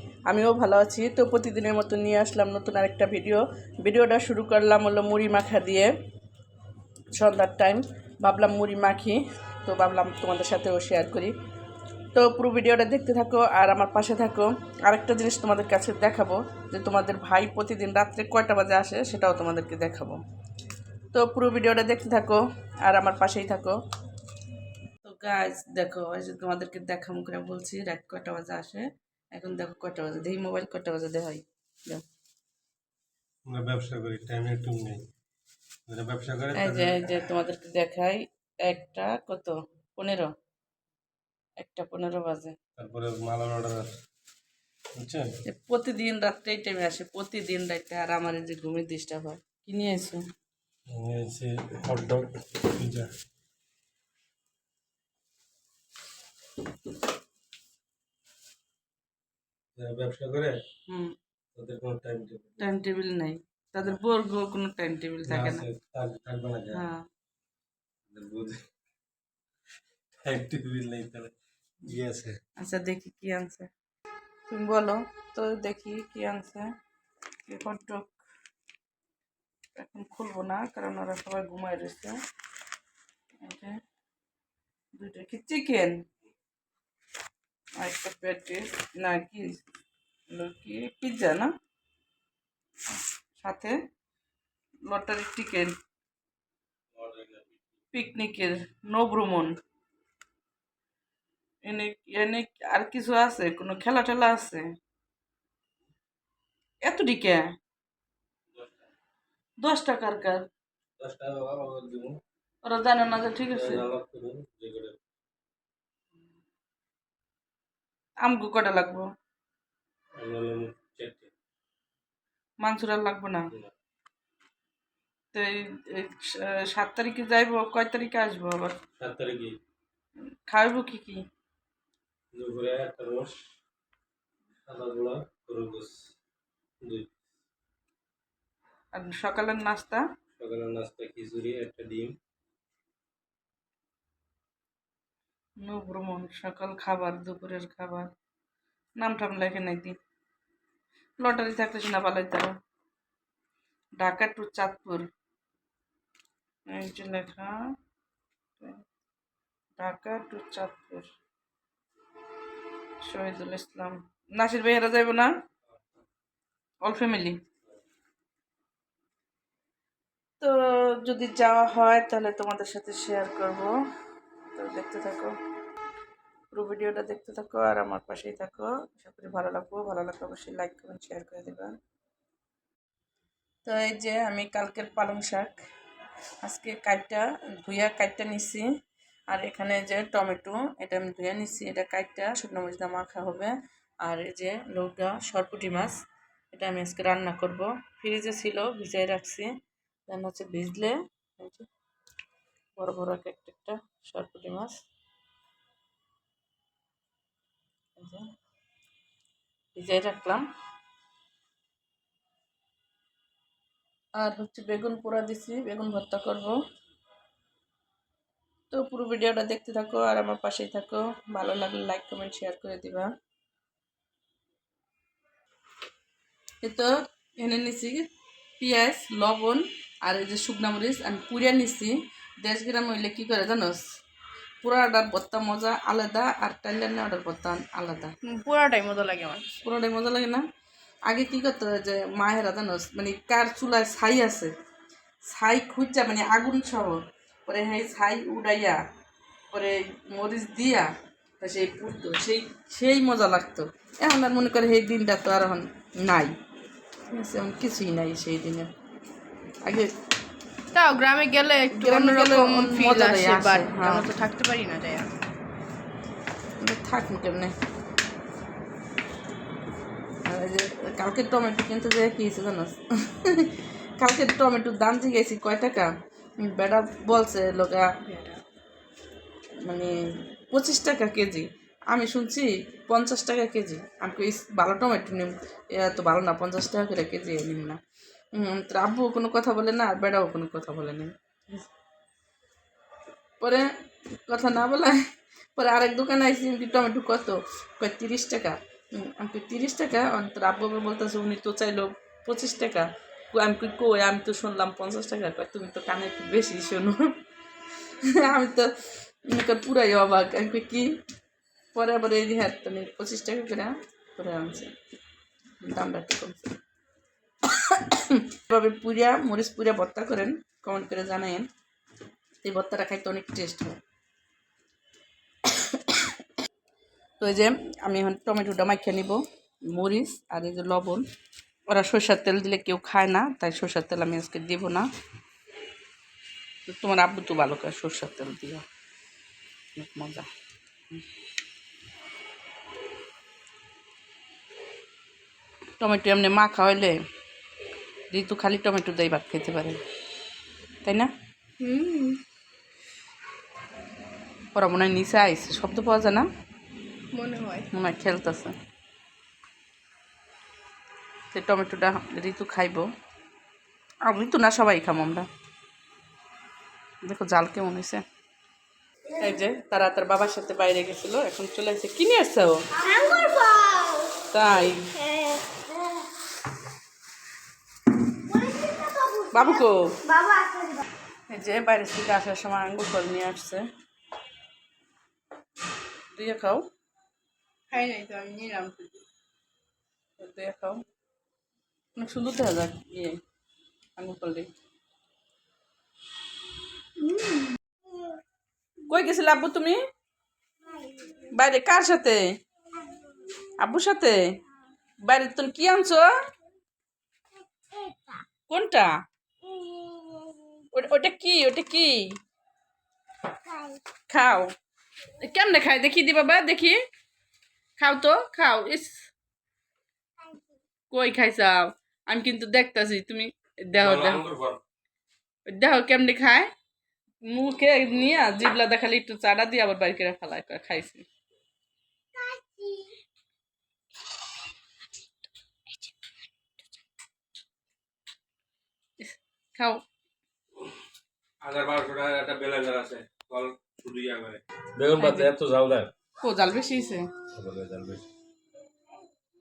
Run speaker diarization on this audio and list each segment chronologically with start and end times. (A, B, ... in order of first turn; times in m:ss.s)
0:00.3-0:05.9 A
0:07.1-0:11.3 A
0:12.1-0:20.2 A
0:21.1-0:23.8 A
0:25.0-0:32.0 A
0:33.5-0:35.1 B
0:35.9-0:37.3 B
0:36.5-0:40.3 A
0:41.6-0:42.6 A
0:42.8-0:44.0 B
0:45.0-0:45.3 B
0:45.5-0:50.2 A
0:50.9-0:53.1 B
0:59.8-1:00.6 B
1:00.9-1:01.1 A
1:01.6-1:02.7 B
1:02.6-1:05.7 A
1:05.3-1:06.8 B
1:06.7-1:07.0 A
1:08.1-1:08.7 B
1:10.2-1:12.4 B
1:12.6-1:13.7 A
1:14.5-1:16.7 A
1:17.4-1:18.2 A
1:19.8-1:22.2 A
1:23.4-1:23.8 A
1:25.0-1:26.0 A
1:27.8-1:29.6 A
1:30.3-1:31.5 A
1:33.4-1:33.8 A
1:34.9-1:35.8 A
1:36.9-1:37.6 B
1:37.9-1:39.6 A
1:41.6-1:44.7 A
1:46.8-1:47.6 A
1:48.5-1:48.8 B
1:49.6-1:50.5 A
1:51.0-1:52.2 B
1:52.6-1:53.9 A
1:53.5-1:55.0 B
1:58.2-1:59.1 A
2:00.2-2:01.3 B
2:02.6-2:03.5 A
2:05.3-2:08.8 A
2:09.0-2:09.6 B
2:10.5-2:11.2 A
2:12.3-2:13.4 B
2:14.7-2:16.1 B
2:16.8-2:17.2 B
2:18.9-2:20.0 A
2:20.4-2:22.2 B
2:25.6-2:28.1 A
2:29.0-2:30.0 A
2:31.2-2:32.5 A
2:34.0-2:35.1 A
2:36.7-2:37.6 A
2:38.6-2:38.8 A
2:39.8-2:41.1 A
2:43.0-2:45.3 A
2:46.8-2:47.4 A
2:50.4-2:53.7 A
2:54.5-2:55.3 A
2:56.5-3:01.8 A
3:03.6-3:05.6 A
3:06.4-3:08.7 A
3:09.3-3:16.0 A
3:16.5-3:19.5 A
3:20.1-3:21.7 A
3:22.8-3:24.8 A
3:28.0-3:28.3 A
3:29.8-3:30.4 A
3:34.2-3:36.6 A
3:38.7-3:43.1 A
3:46.6-3:48.1 A
3:48.6-3:53.8 A
3:54.6-3:58.1 A
3:58.2-3:59.6 C
3:59.6-4:00.4 A
4:01.1-4:04.5 A
4:05.3-4:08.8 A
4:09.5-4:16.4 A
4:17.1-4:18.7 A
4:19.6-4:19.9 A
4:20.7-4:25.1 C
4:21.7-4:24.1 A
4:26.6-4:27.6 A
4:30.2-4:37.9 A
4:38.0-4:38.4 C
4:39.6-4:47.8 A
4:48.3-4:51.7 A
4:53.4-4:55.0 A
4:55.6-5:07.1 A
5:08.0-5:11.0 A
5:11.8-5:14.7 A
5:15.6-5:16.5 A
5:17.5-5:21.5 A
5:22.4-5:23.8 A
5:25.5-5:26.1 A
5:27.2-5:31.1 A
5:31.7-5:34.9 A
5:36.7-5:38.6 A
5:39.8-5:40.3 A
5:45.8-5:47.0 A
5:48.1-5:49.8 A
5:50.8-5:51.1 A
5:51.6-5:52.2 C
5:54.5-5:56.3 A
5:57.1-5:57.7 C
5:57.7-5:58.5 A
6:01.3-6:02.9 A
6:04.0-6:05.3 A
6:07.0-6:08.0 A
6:09.1-6:13.2 A
6:14.2-6:15.1 A
6:18.4-6:19.1 C
6:19.3-6:20.2 A
6:21.3-6:23.7 A
6:26.1-6:26.7 A
6:27.7-6:29.0 C
6:30.2-6:30.8 A
6:32.0-6:33.2 A
6:34.0-6:34.5 A
6:37.1-6:37.5 C
6:38.9-6:39.8 A
6:41.2-6:42.4 A
6:43.6-6:44.4 A
6:45.0-6:46.1 A
6:48.5-6:49.0 A
6:50.7-6:52.2 A
6:54.1-6:54.5 A
6:55.2-6:56.8 A
6:57.8-6:59.1 A
7:00.9-7:04.2 A
7:03.8-7:04.6 B
7:05.5-7:06.5 A
7:07.2-7:11.1 A
7:19.0-7:19.8 A
7:21.4-7:25.9 B
7:25.0-7:25.3 A
7:26.2-7:27.1 A
7:27.4-7:28.0 B